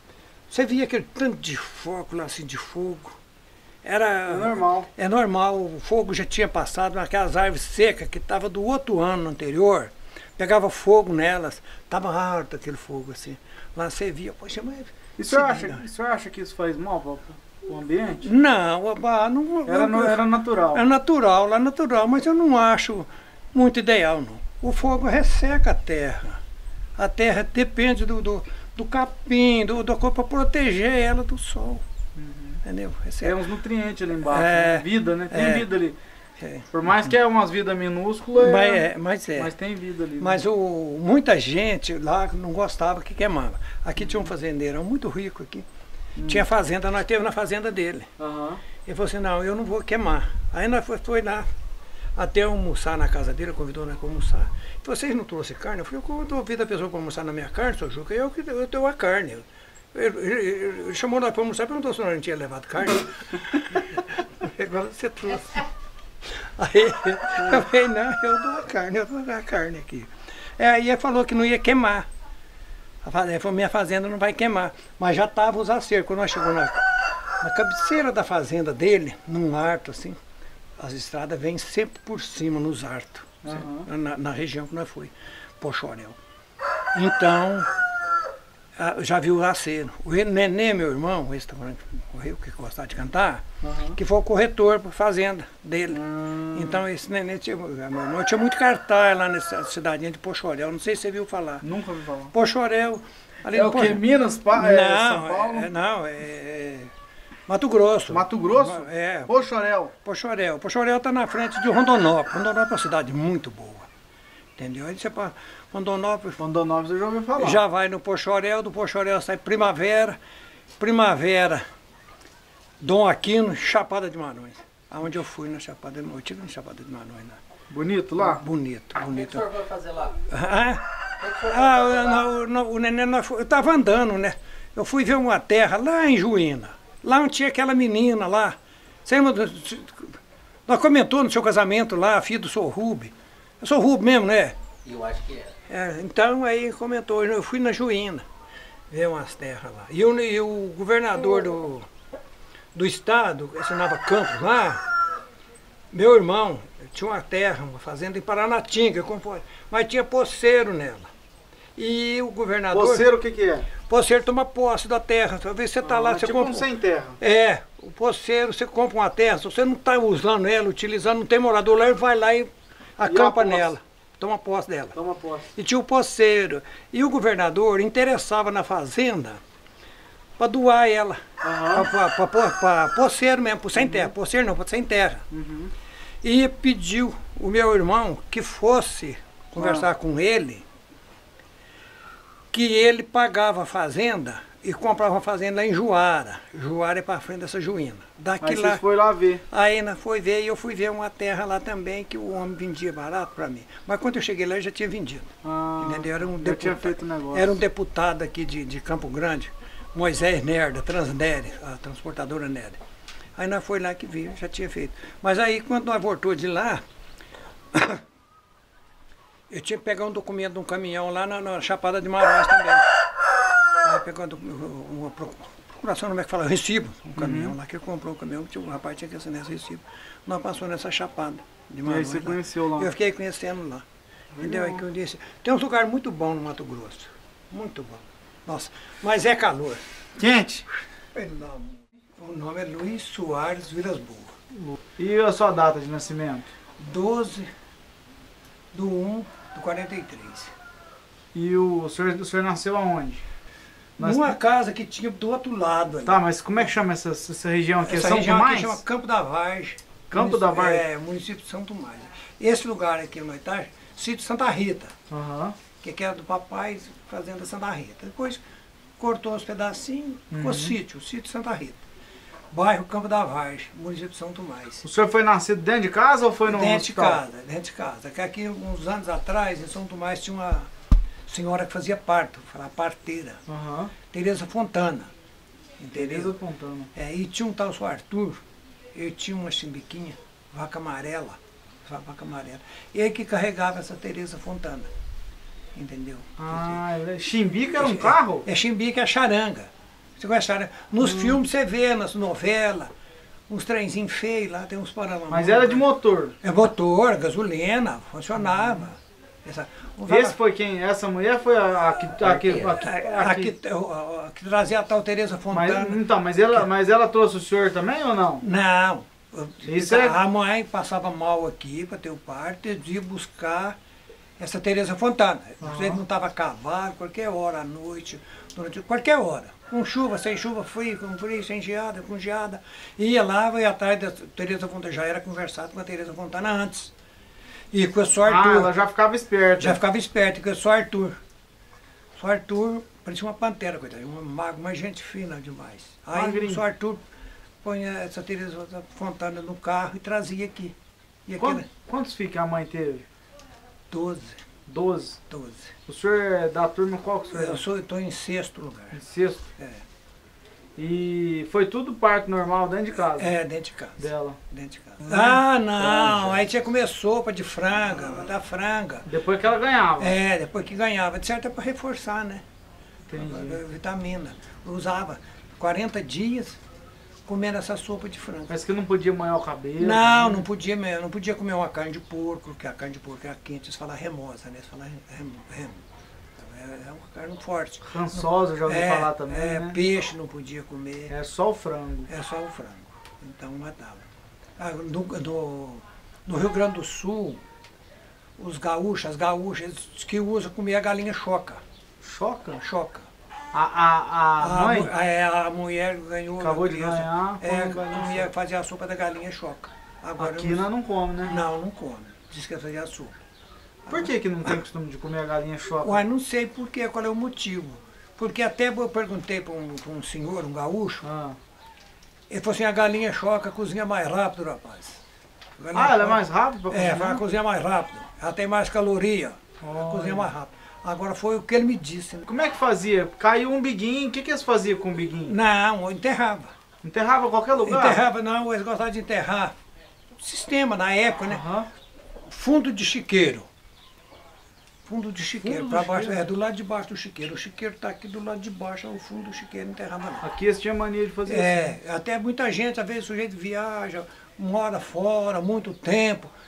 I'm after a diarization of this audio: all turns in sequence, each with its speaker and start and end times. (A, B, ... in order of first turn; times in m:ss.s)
0:00.5-0:03.2 A
0:03.8-0:15.8 A
0:04.3-0:04.9 B
0:15.2-0:18.3 B
0:18.2-0:20.2 A
0:19.6-0:20.8 B
0:20.7-0:26.4 A
0:27.0-0:31.8 A
0:32.2-0:32.6 B
0:32.6-0:33.4 A
0:33.2-0:36.0 B
0:34.2-0:35.7 A
0:36.4-0:36.7 A
0:36.7-0:40.4 B
0:38.3-0:39.5 A
0:40.2-0:45.7 A
0:46.2-0:46.4 B
0:46.2-0:48.1 A
0:48.2-0:48.6 B
0:48.8-0:51.5 A
0:52.1-1:05.6 A
1:06.2-1:12.1 A
1:13.0-1:16.8 A
1:17.4-1:20.2 A
1:20.8-1:26.2 A
1:23.4-1:23.9 B
1:26.9-1:27.7 A
1:28.8-1:33.4 A
1:33.6-1:34.0 B
1:33.9-1:41.6 A
1:36.0-1:36.8 B
1:41.6-1:42.3 B
1:42.3-1:44.0 A
1:43.5-1:45.7 B
1:44.5-1:46.9 A
1:47.5-1:49.4 A
1:48.1-1:49.9 B
1:50.0-1:53.9 A
1:54.6-1:56.4 A
1:56.4-1:57.6 B
1:57.4-2:00.2 A
2:00.8-2:01.6 A
2:02.8-2:07.4 A
2:07.7-2:08.4 B
2:08.2-2:09.4 A
2:09.1-2:10.2 C
2:10.3-2:10.8 A
2:11.2-2:12.2 C
2:11.4-2:24.6 A
2:24.8-2:25.5 C
2:25.7-2:28.2 A
2:28.9-2:31.9 A
2:32.7-2:34.8 A
2:35.9-2:41.1 A
2:41.8-2:43.1 A
2:42.7-2:43.7 B
2:43.8-2:55.0 A
2:45.8-2:47.2 B
2:53.0-2:53.7 B
2:54.9-2:55.5 B
2:55.5-2:59.4 A
3:00.4-3:05.2 A
3:01.4-3:01.9 B
3:03.8-3:04.1 B
3:05.3-3:05.7 B
3:06.2-3:10.6 A
3:09.6-3:09.8 B
3:12.5-3:18.8 A
3:18.4-3:19.4 B
3:19.5-3:32.8 A
3:25.4-3:27.5 B
3:33.4-3:36.8 A
3:37.7-3:38.0 A
3:39.5-3:42.9 A
3:43.8-3:53.8 A
3:47.1-3:47.5 B
3:51.8-3:52.9 B
3:54.4-3:59.8 A
3:54.4-3:54.8 B
4:00.2-4:00.7 B
4:01.1-4:04.3 A
4:04.5-4:06.5 B
4:06.8-4:07.5 A
4:08.7-4:10.5 A
4:11.3-4:13.2 B
4:14.0-4:14.3 B
4:14.0-4:16.2 A
4:16.0-4:18.8 B
4:17.8-4:24.9 A
4:20.1-4:20.8 B
4:25.1-4:25.6 B
4:25.8-4:28.4 A
4:29.0-4:31.8 A
4:30.3-4:30.7 B
4:32.5-4:34.8 A
4:34.8-4:37.2 B
4:36.5-4:40.7 A
4:41.3-4:43.4 A
4:43.5-4:43.9 B
4:44.1-4:45.1 A
4:45.8-4:46.3 A
4:45.9-4:46.9 B
4:46.9-4:54.9 A
4:55.7-4:56.8 A
4:56.4-4:58.4 B
4:57.8-5:02.9 A
5:01.0-5:01.4 B
5:03.5-5:05.8 A
5:05.3-5:06.3 B
5:06.4-5:10.4 A
5:10.1-5:13.5 B
5:12.2-5:12.8 C
5:12.7-5:16.0 A
5:15.5-5:18.4 B
5:18.4-5:23.8 A
5:19.6-5:20.2 B
5:24.4-5:36.9 A
5:25.6-5:26.0 B
5:37.7-5:38.7 A
5:38.2-5:39.8 B
5:39.6-5:41.2 A
5:42.2-5:47.0 A
5:46.1-5:46.6 B
5:47.6-5:51.6 A
5:51.4-5:53.0 B
5:53.9-5:54.4 A
5:54.7-5:55.2 B
5:55.3-5:55.7 A
5:55.9-5:57.6 B
5:57.3-5:59.0 A
5:58.9-5:59.4 B
5:59.6-5:59.8 A
6:00.8-6:03.3 B
6:03.0-6:09.1 A
6:04.0-6:04.4 B
6:05.0-6:06.3 B
6:09.1-6:10.2 B
6:10.0-6:12.4 A
6:13.1-6:13.6 B
6:13.2-6:16.6 A
6:17.2-6:18.6 A
6:18.5-6:20.4 B
6:19.8-6:25.8 A
6:26.4-6:27.9 A
6:27.8-6:29.8 B
6:28.6-6:31.1 A
6:31.1-6:32.1 B
6:32.1-6:34.0 A
6:34.6-6:37.4 A
6:38.4-6:41.6 A
6:42.0-6:42.6 B
6:42.6-6:43.1 A
6:43.5-6:44.9 B
6:44.4-6:50.6 A
6:46.4-6:48.3 B
6:50.2-6:51.4 B
6:51.2-6:53.2 A
6:53.8-6:54.5 A
6:53.9-6:56.0 B
6:55.8-7:01.0 A
7:01.0-7:01.4 B
7:02.3-7:05.0 A
7:05.6-7:12.3 A
7:05.7-7:07.2 B
7:09.6-7:10.3 B
7:12.3-7:15.3 B
7:15.2-7:16.5 A
7:16.8-7:18.0 B
7:17.6-7:19.5 A
7:20.2-7:21.4 A
7:21.3-7:21.7 B
7:22.2-7:23.5 A
7:24.8-7:30.2 A
7:25.4-7:26.2 B
7:30.2-7:31.7 B
7:31.2-7:36.3 A